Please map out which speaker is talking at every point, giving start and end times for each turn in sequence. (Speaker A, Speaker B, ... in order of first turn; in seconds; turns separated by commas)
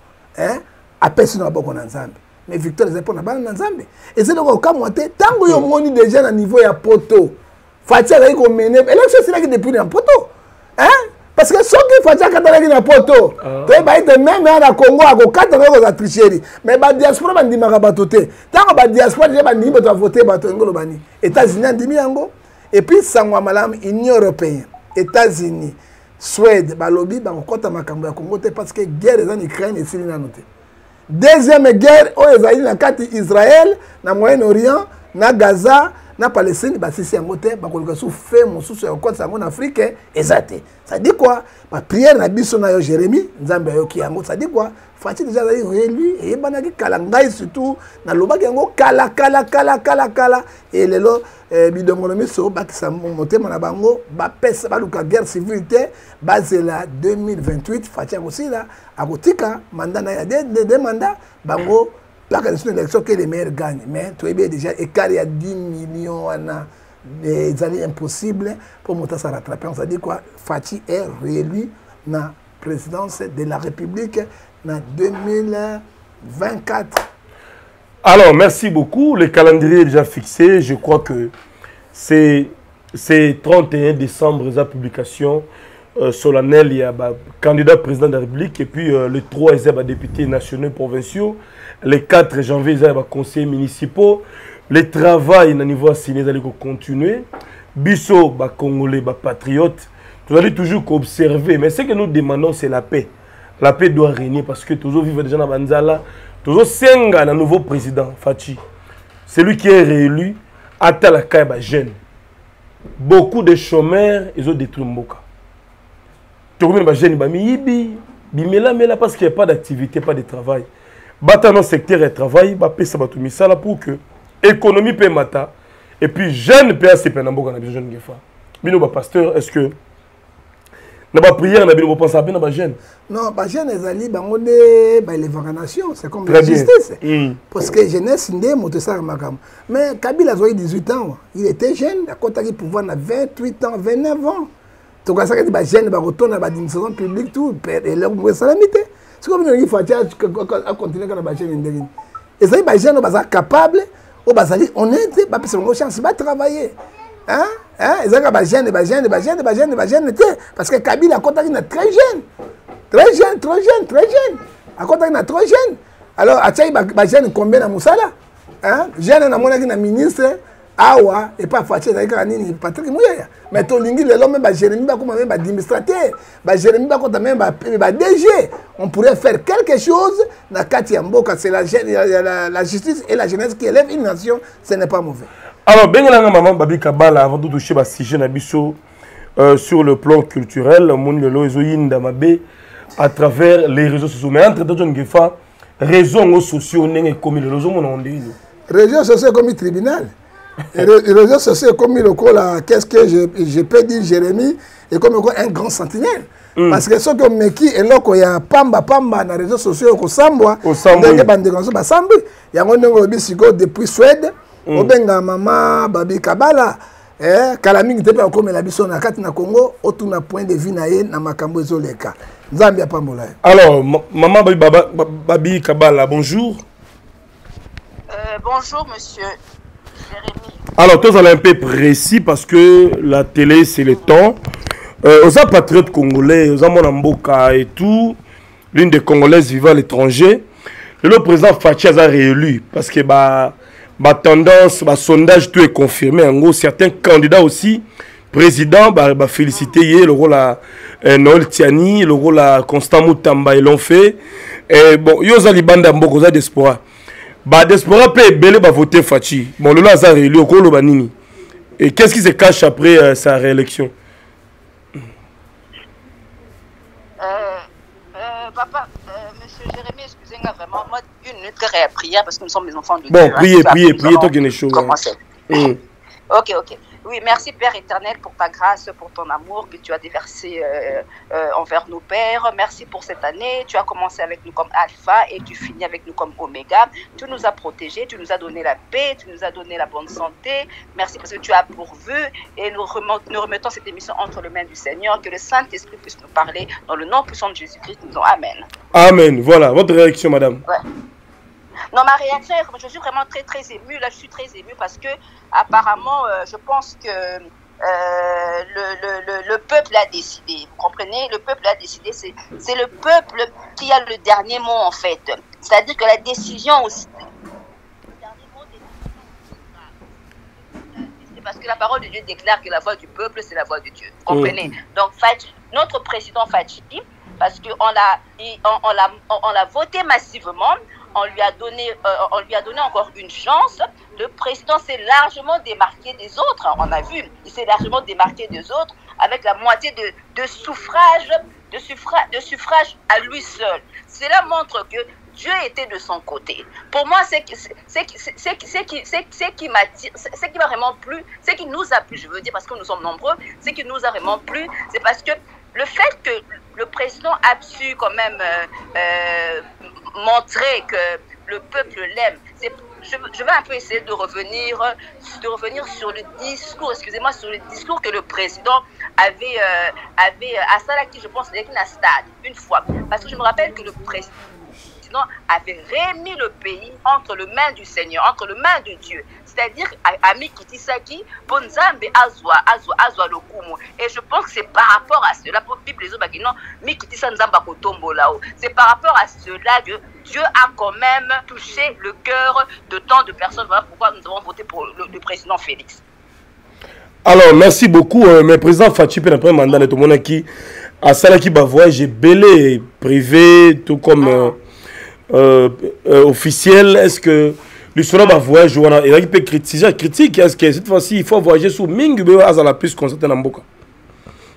Speaker A: 0.3-30.4, Speaker B: 13.4-13.8, Speaker A: 31.1-77.0, Speaker B: 78.0-81.3, Speaker B: 81.9-85.5, Speaker B: 86.0-108.6, Speaker B: 109.3-112.0, Speaker B: 113.0-115.2, Speaker B: 116.6-120.7, Speaker B: 121.2-129.7, Speaker B: 131.1-132.8, Speaker A: 133.1-137.0, Speaker B: 136.2-137.4, Speaker A: 137.5-144.5, Speaker A: 145.1-156.8, Speaker A: 157.3-162.2, Speaker A: 162.9-185.3, Speaker B: 185.7-188.8, Speaker B: 189.3-192.4, Speaker B: 193.0-198.4, Speaker A: 198.7-200.1, Speaker A: 200.7-223.3, Speaker B: 206.6-206.8, Speaker B: 210.6-211.3, Speaker B: 214.7-214.9, Speaker B: 223.4-226.6, Speaker C: 228.1-229.4, Speaker C: 230.0-230.6, Speaker B: 230.8-234.4, Speaker B: 235.0-238.2, Speaker B: 238.7-240.4, Speaker B: 241.0-256.8, Speaker B: 257.4-261.1, Speaker B: 261.8-263.9, Speaker C: 267.2-267.6, Speaker C: 268.1-275.6, Speaker B: 273.1-274.9, Speaker B: 275.5-275.8, Speaker C: 276.3-298.7, Speaker B: 298.9-300.6, Speaker C: 301.9-317.1, Speaker C: 318.1-319.9, Speaker C: 320.9-359.6, Speaker B: 324.3-324.6, Speaker C: 360.1-374.3, Speaker C: 375.0-396.0, Speaker B: 397.2-400.5, Speaker B: 401.0-404.6, Speaker B: 405.3-413.6